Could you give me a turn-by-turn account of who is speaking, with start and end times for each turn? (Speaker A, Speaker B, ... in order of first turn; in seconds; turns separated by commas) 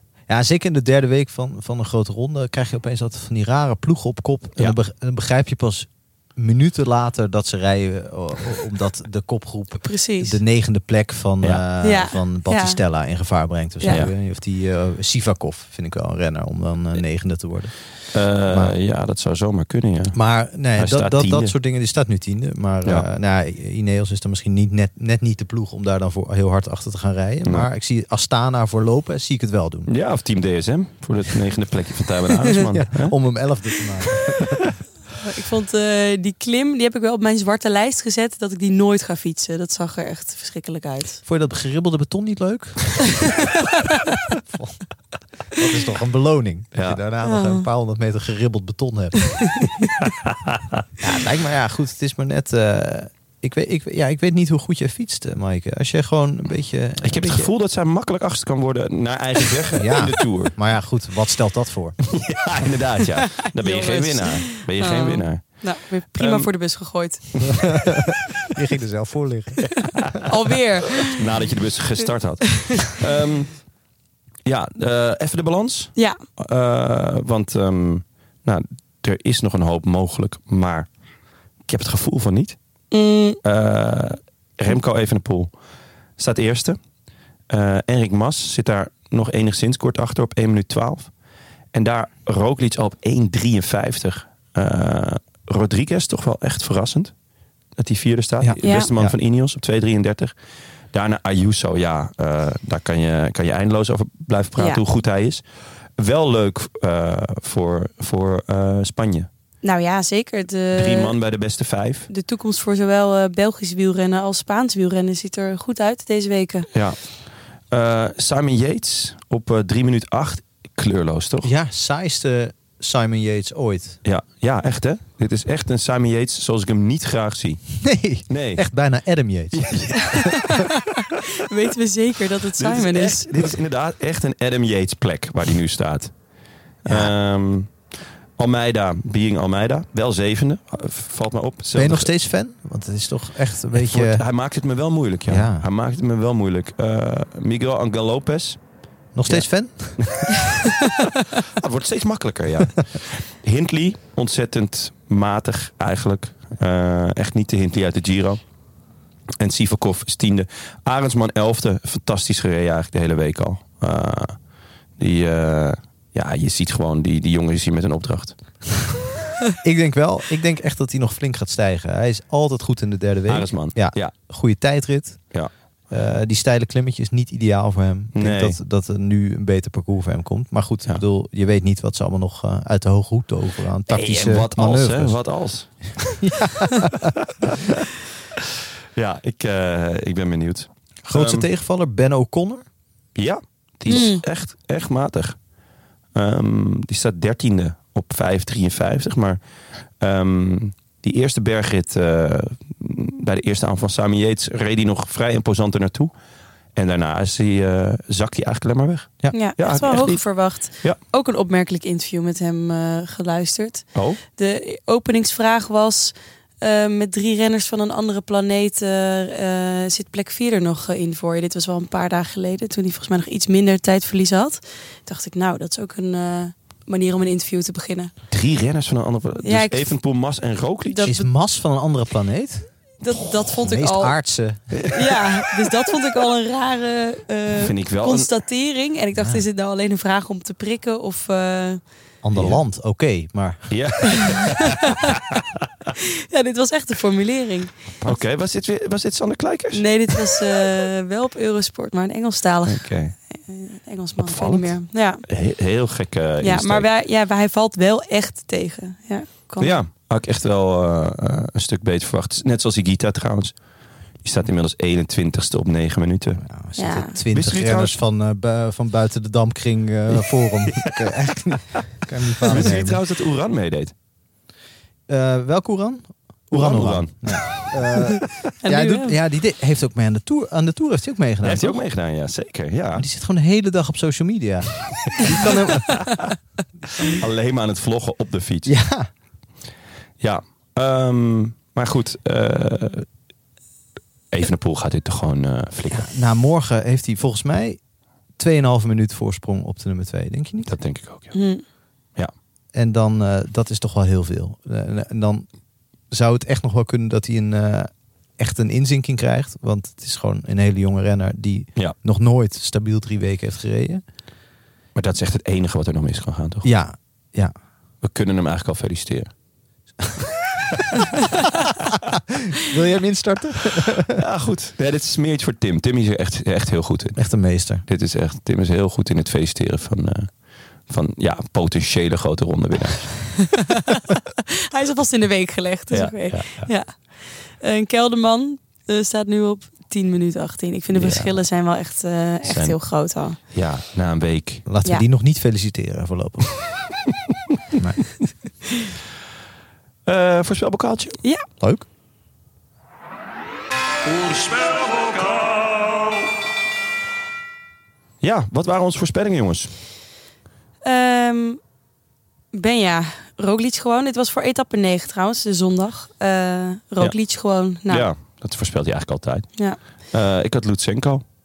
Speaker A: 0.3-17.9, Speaker B: 9.8-10.4, Speaker B: 11.8-12.8, Speaker C: 13.9-14.1, Speaker C: 18.1-21.5, Speaker A: 18.4-18.7, Speaker A: 20.1-29.9, Speaker C: 29.9-33.1, Speaker A: 32.7-34.6, Speaker B: 35.2-41.2, Speaker A: 41.2-43.3, Speaker A: 44.5-44.8, Speaker A: 45.5-49.4, Speaker C: 46.7-47.0, Speaker B: 47.2-47.6, Speaker A: 51.0-57.5, Speaker C: 57.0-60.5, Speaker A: 59.7-62.1, Speaker C: 62.1-66.5, Speaker B: 63.4-67.7, Speaker A: 68.5-69.9, Speaker B: 70.2-71.2, Speaker C: 71.0-73.6, Speaker C: 74.4-80.9, Speaker B: 76.0-76.2, Speaker C: 81.7-82.6, Speaker B: 82.9-83.4, Speaker C: 83.4-85.5, Speaker C: 86.2-86.8, Speaker C: 87.5-91.1, Speaker C: 91.7-97.1, Speaker C: 97.8-100.3, Speaker A: 98.4-99.1, Speaker B: 98.6-98.9, Speaker C: 100.9-105.4, Speaker C: 106.0-109.3, Speaker B: 109.6-111.1, Speaker C: 110.7-112.1, Speaker B: 112.1-116.7, Speaker C: 116.7-121.5, Speaker A: 121.4-124.0, Speaker C: 124.0-128.6, Speaker A: 127.8-130.3, Speaker C: 129.5-130.6, Speaker B: 130.1-130.7, Speaker B: 131.4-133.3, Speaker C: 132.6-136.1, Speaker C: 136.8-137.8, Speaker A: 136.8-137.1, Speaker C: 138.4-142.1, Speaker A: 141.7-144.2, Speaker C: 143.8-148.6, Speaker A: 145.3-145.7, Speaker A: 149.1-150.1, Speaker C: 149.2-150.4, Speaker C: 151.4-158.4, Speaker C: 159.4-164.4, Speaker C: 165.0-168.4, Speaker A: 169.6-175.3, Speaker C: 173.3-174.1, Speaker A: 175.9-185.2, Speaker C: 178.1-178.6, Speaker C: 183.9-186.2, Speaker A: 186.2-187.1, Speaker C: 188.9-191.4, Speaker A: 191.1-192.6, Speaker C: 193.2-195.3, Speaker B: 193.9-194.2, Speaker C: 196.1-199.4, Speaker C: 200.0-206.1, Speaker C: 206.7-211.0, Speaker B: 209.3-228.1, Speaker C: 213.9-214.2, Speaker C: 228.3-231.1, Speaker B: 229.4-229.9, Speaker B: 230.9-231.3, Speaker A: 231.0-232.7, Speaker B: 233.0-234.2, Speaker A: 233.6-234.8, Speaker C: 234.7-235.2, Speaker B: 234.9-241.8, Speaker C: 237.5-238.3, Speaker A: 242.2-244.1, Speaker C: 242.3-242.6, Speaker C: 243.7-244.8, Speaker B: 246.3-248.2, Speaker C: 248.0-250.3, Speaker B: 249.7-255.2, Speaker C: 252.7-253.1, Speaker C: 254.2-256.9, Speaker B: 256.4-259.8, Speaker C: 259.6-263.6, Speaker C: 264.2-266.4, Speaker A: 266.4-273.0, Speaker B: 266.8-267.2, Speaker C: 267.3-267.9, Speaker C: 272.4-273.9, Speaker A: 275.1-281.8, Speaker C: 276.5-277.9, Speaker B: 278.6-279.1, Speaker C: 281.4-283.1, Speaker A: 282.9-286.0, Speaker C: 285.1-286.2, Speaker C: 287.0-288.7, Speaker A: 288.6-289.1, Speaker C: 290.2-293.1, Speaker C: 294.3-296.1, Speaker A: 295.9-297.8, Speaker A: 298.4-300.7, Speaker C: 300.7-301.3, Speaker B: 301.3-301.6, Speaker A: 302.7-305.5, Speaker A: 306.1-314.0, Speaker C: 314.9-316.7, Speaker A: 316.6-317.5, Speaker C: 318.0-319.3, Speaker A: 322.6-324.2, Speaker C: 324.1-327.2, Speaker A: 327.2-327.8, Speaker C: 327.8-333.5, Speaker B: 334.6-343.4, Speaker C: 335.9-336.7, Speaker C: 340.9-341.3, Speaker C: 342.4-342.8, Speaker C: 343.3-344.6, Speaker A: 344.7-346.6, Speaker A: 347.8-348.1, Speaker C: 350.1-351.2, Speaker A: 351.6-351.8, Speaker C: 354.1-356.1, Speaker C: 358.2-359.7, Speaker B: 360.8-361.6, Speaker B: 362.5-368.1, Speaker C: 367.9-371.2